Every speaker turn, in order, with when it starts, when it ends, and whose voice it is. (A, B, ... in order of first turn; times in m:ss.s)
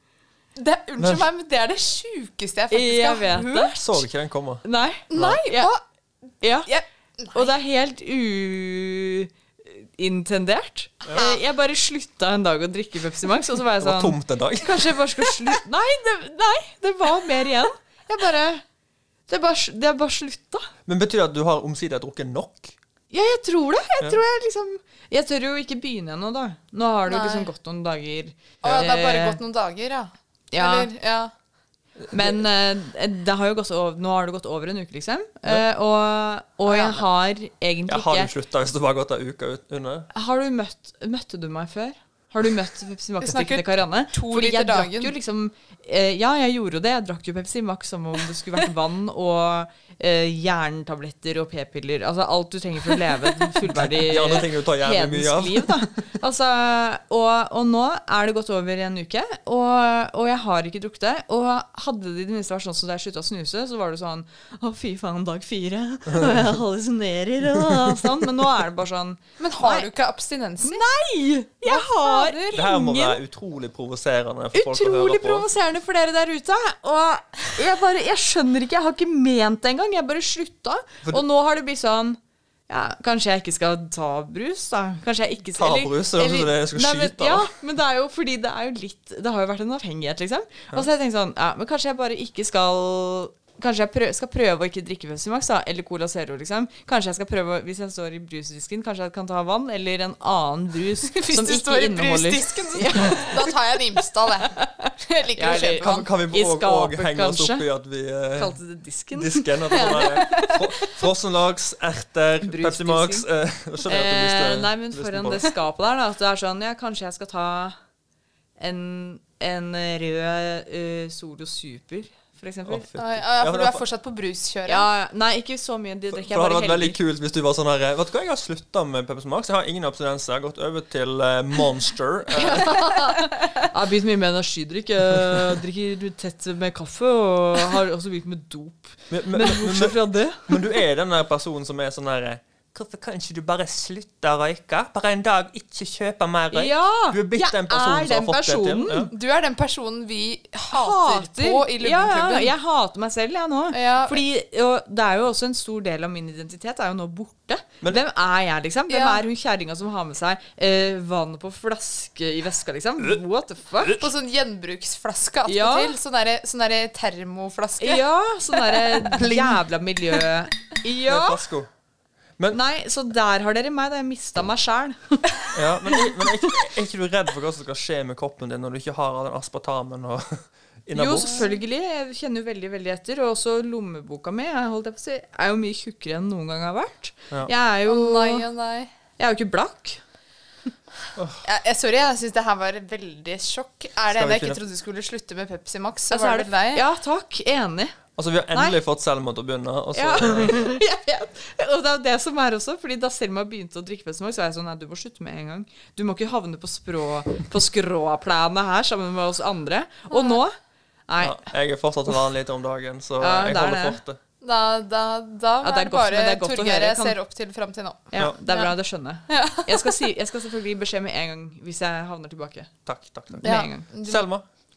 0:00.6-0:04.0 A
0:01.0-0:01.2 B
0:02.7-0:03.8 C
0:03.8-0:05.4 B
0:04.6-0:05.7 C
0:05.1-0:05.8 A
0:06.4-0:06.7 C
0:06.7-0:07.5 A
0:07.3-0:18.6 C
0:11.1-0:11.4 A
0:13.8-0:14.9 B
0:19.3-0:20.7 C
0:20.9-0:22.8 B
0:23.1-0:29.4 C
0:27.1-0:27.5 A
0:28.6-0:28.9 B
0:28.6-0:31.3 A
0:30.5-0:30.9 C
0:32.0-0:32.4 B
0:32.1-0:38.3 C
0:36.7-0:37.0 A
0:37.9-0:40.1 B
0:40.1-1:09.9 C
0:43.2-0:45.1 A
0:53.7-0:55.9 B
1:06.1-1:06.4 B
1:09.4-1:10.9 A
1:10.6-1:13.2 C
1:11.6-1:12.6 A
1:12.5-1:15.5 B
1:14.5-1:43.5 C
1:25.6-1:27.5 B
1:41.2-1:46.1 A
1:45.4-1:47.7 C
1:45.5-1:48.6 B
1:48.4-1:50.6 C
1:49.1-1:55.5 B
1:52.4-1:53.3 C
1:53.9-1:57.8 C
1:58.6-2:02.8 C
2:02.7-2:03.8 B
2:03.0-2:04.9 A
2:04.7-2:07.0 C
2:06.1-2:12.8 B
2:12.4-2:20.5 C
2:19.1-2:29.1 B
2:26.5-2:29.1 C
2:29.1-2:32.5 A
2:30.7-2:44.0 C
2:33.7-2:34.2 A
2:38.9-2:39.2 A
2:43.8-2:44.0 B
2:44.0-2:49.6 A
2:45.5-2:46.0 C
2:47.8-2:51.4 C
2:51.1-2:51.7 B
2:52.5-2:56.4 C
2:55.6-3:01.4 B
3:00.9-3:08.5 C
3:01.2-3:01.5 A
3:07.9-3:08.9 A
3:09.2-3:10.0 C
3:11.2-3:11.4 B
3:11.4-3:16.8 A
3:14.1-3:14.6 B
3:16.1-3:18.0 C
3:18.2-3:20.6 B
3:18.5-3:18.8 C
3:20.0-3:30.6 C
3:30.1-3:30.4 A
3:31.1-3:31.4 C
3:31.2-3:34.2 B
3:33.2-3:34.0 C
3:34.4-3:38.8 A
3:35.6-3:37.2 C
3:38.1-3:42.7 C
3:39.3-3:40.0 A
3:42.9-3:44.4 B
3:43.4-3:43.9 C
3:43.4-3:44.2 A